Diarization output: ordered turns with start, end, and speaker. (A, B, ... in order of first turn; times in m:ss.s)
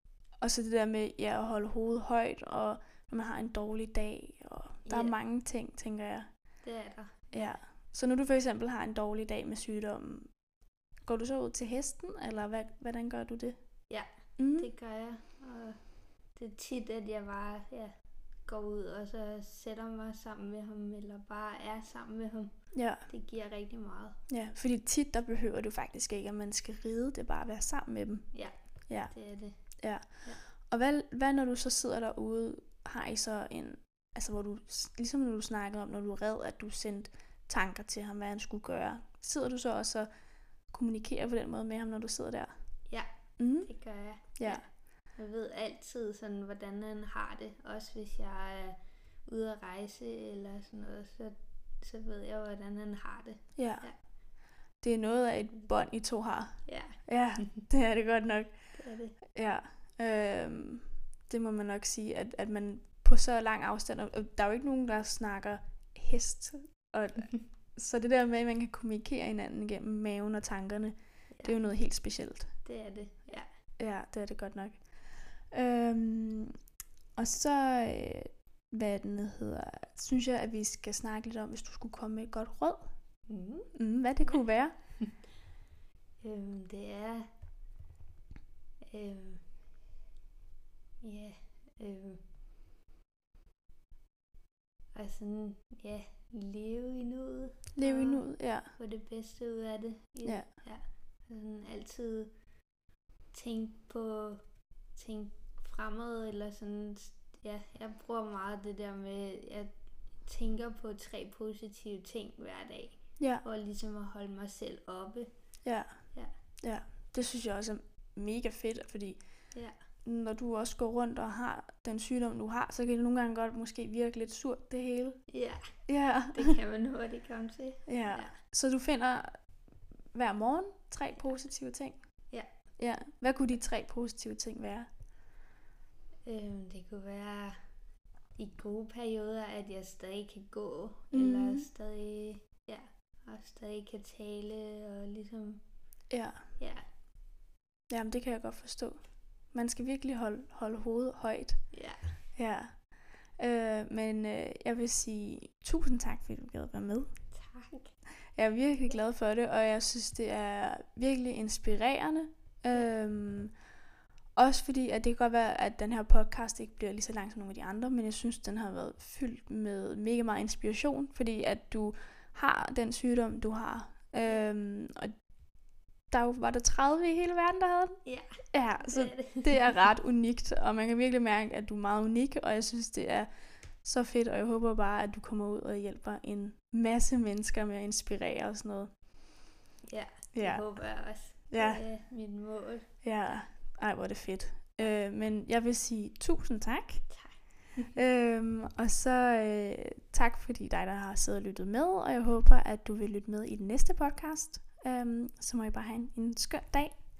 0:00.4-0:06.3 A
0:04.9-0:05.2 B
0:06.6-0:07.6 B
0:07.3-0:10.3 A
0:11.0-0:13.6 A
0:13.9-0:15.8 B
0:14.4-0:14.7 A
0:16.4-0:17.9 B
0:18.4-0:22.5 B
0:22.7-0:23.0 A
0:23.1-0:24.2 B
0:24.3-0:28.3 A
0:29.1-0:29.6 B
0:29.8-0:40.1 A
0:40.7-0:42.5 A
0:43.4-0:43.7 A
0:43.6-0:54.0 B
0:44.4-0:44.6 A
0:53.6-0:53.9 A
0:54.8-0:58.5 A
0:56.6-0:57.6 B
0:58.7-0:59.2 B
0:59.3-1:12.5 A
1:11.3-1:11.6 B
1:12.6-1:13.5 B
1:13.8-1:14.8 A
1:15.5-1:16.5 A
1:17.2-1:22.9 A
1:23.3-1:23.7 B
1:23.7-1:24.7 A
1:26.2-1:27.3 B
1:28.9-1:29.4 B
1:31.0-1:32.2 B
1:34.9-1:42.3 B
1:37.8-1:38.7 A
1:43.3-1:44.4 B
1:44.9-1:49.7 B
1:50.2-1:55.3 B
1:55.6-1:55.9 A
1:56.6-1:59.2 A
2:00.0-2:05.2 A
2:05.3-2:05.7 B
2:05.9-2:06.6 A
2:06.3-2:08.3 B
2:07.9-2:09.4 A
2:10.1-2:12.0 A
2:12.8-2:14.9 A
2:16.2-2:17.6 B
2:18.4-2:25.6 B
2:21.1-2:21.7 A
2:26.1-2:26.4 A
2:26.6-2:26.8 B
2:27.9-2:29.0 A
2:29.5-2:31.6 A
2:31.7-2:32.1 B
2:32.4-2:32.8 A
2:33.4-2:37.1 A
2:37.3-2:37.9 B
2:38.4-2:43.5 A
2:44.4-2:55.1 A
2:56.1-2:57.9 A
2:58.0-2:59.7 B
2:58.5-3:03.3 A
3:03.8-3:08.9 A
3:09.9-3:12.9 B
3:10.3-3:10.7 A
3:11.5-3:11.8 A
3:13.0-3:17.1 A
3:17.1-3:17.4 B
3:17.9-3:27.1 A